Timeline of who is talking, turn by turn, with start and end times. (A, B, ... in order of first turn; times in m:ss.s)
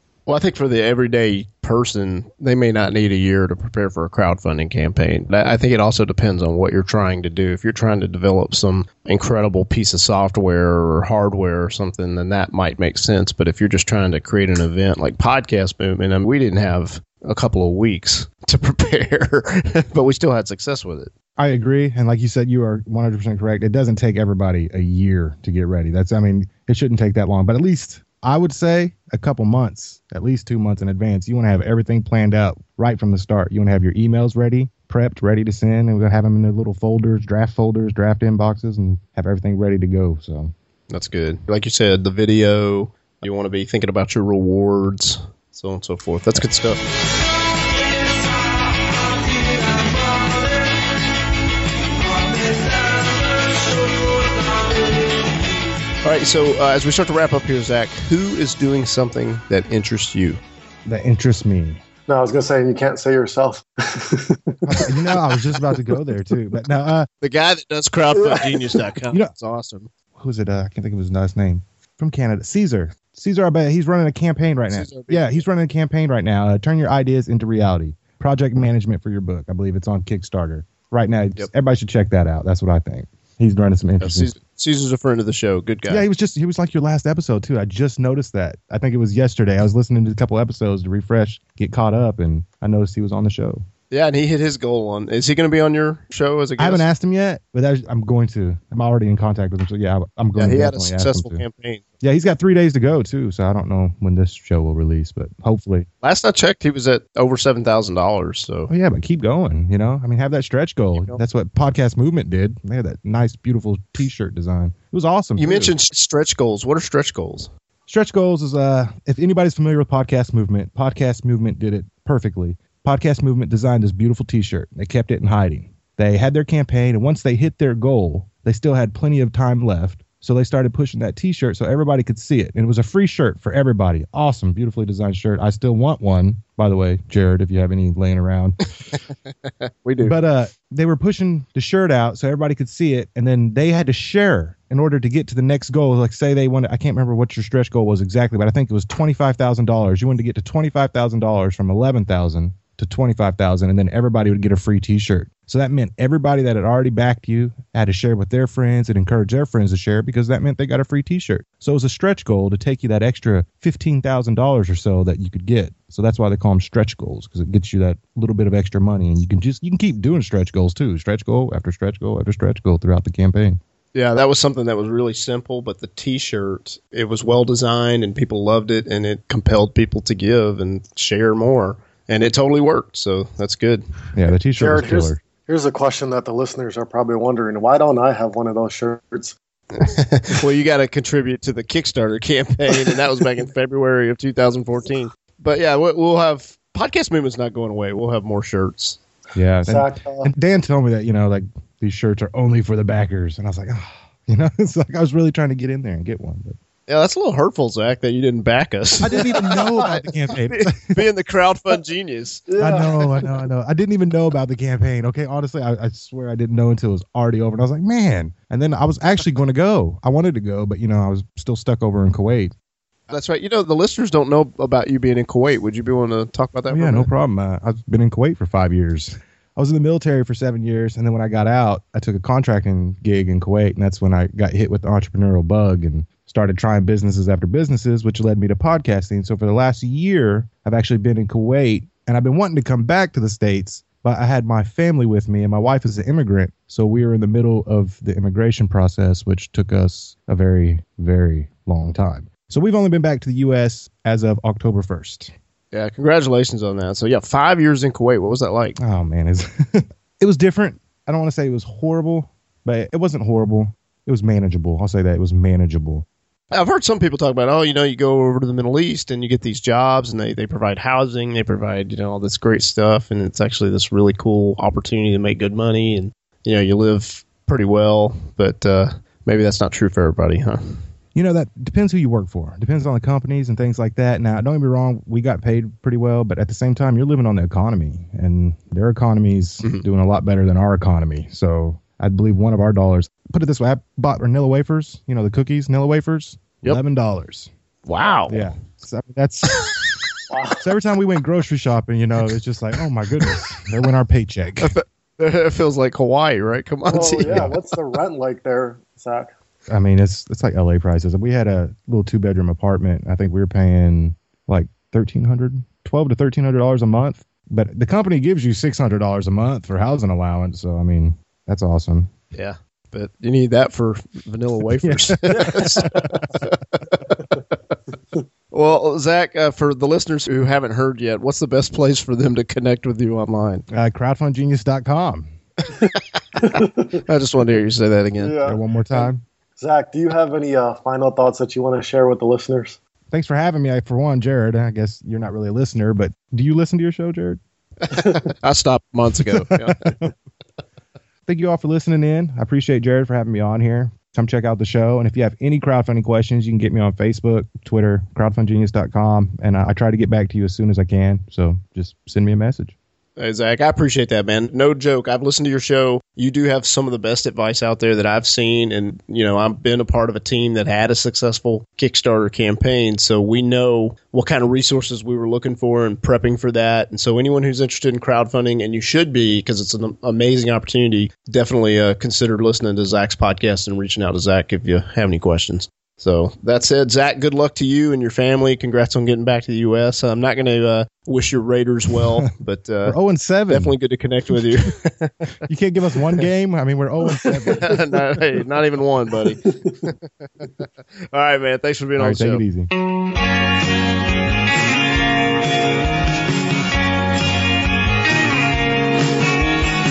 0:00.3-0:21.1 A
0:21.4-0:40.5 B
0:40.9-0:46.8 A
0:56.0-1:00.4 A
1:00.8-1:01.8 B
1:02.1-1:05.2 C
1:04.6-1:07.1 B
1:07.2-1:09.9 A
1:08.1-1:08.9 C
1:10.1-1:24.3 B
1:14.7-1:15.4 A
1:24.0-1:26.0 A
1:25.9-1:33.6 B
1:33.9-1:36.9 A
1:36.6-1:41.4 B
1:40.4-1:41.8 A
1:42.0-1:45.8 B
1:46.0-1:48.7 A
1:48.7-1:55.7 B
1:55.4-1:57.5 A
1:57.9-2:18.6 B
2:19.8-2:20.1 A
2:20.0-2:53.6 B
2:53.9-3:03.9 A
3:04.1-3:05.2 B
3:04.6-3:09.4 C
3:09.7-3:19.0 A
3:19.3-3:26.6 B
3:19.6-3:20.3 C
3:26.9-3:29.9 A
3:29.0-3:31.0 B
3:29.2-3:29.9 C
3:30.4-3:32.5 A
3:32.5-3:33.0 C
3:32.6-3:42.5 B
3:43.1-3:47.1 A
3:46.7-4:15.3 B
4:15.7-4:18.8 A
4:18.8-4:26.0 B
4:26.5-4:40.8 A
4:41.1-4:57.5 B
4:57.8-4:58.5 A
4:58.3-4:59.7 B
5:00.3-5:00.6 C
5:00.6-5:04.7 B
5:04.6-5:07.6 A
5:06.9-5:09.3 C
5:07.3-5:07.5 B
5:09.7-5:22.1 B
5:22.3-5:27.5 A
5:24.8-5:26.2 B
5:28.5-5:33.6 A
5:33.7-5:35.3 B
5:35.9-5:38.3 A
5:36.4-5:37.0 C
5:38.2-5:42.8 C
5:38.4-5:39.2 B
5:43.1-5:47.4 B
5:47.9-5:49.9 A
5:49.5-5:50.1 B
5:51.3-6:02.8 B
6:03.2-6:33.0 A
6:32.8-6:33.7 B
6:33.5-6:35.1 A
6:35.5-6:37.8 B
6:37.3-6:38.0 C
6:37.6-6:42.4 A
6:39.5-6:39.9 C
6:42.0-6:42.7 B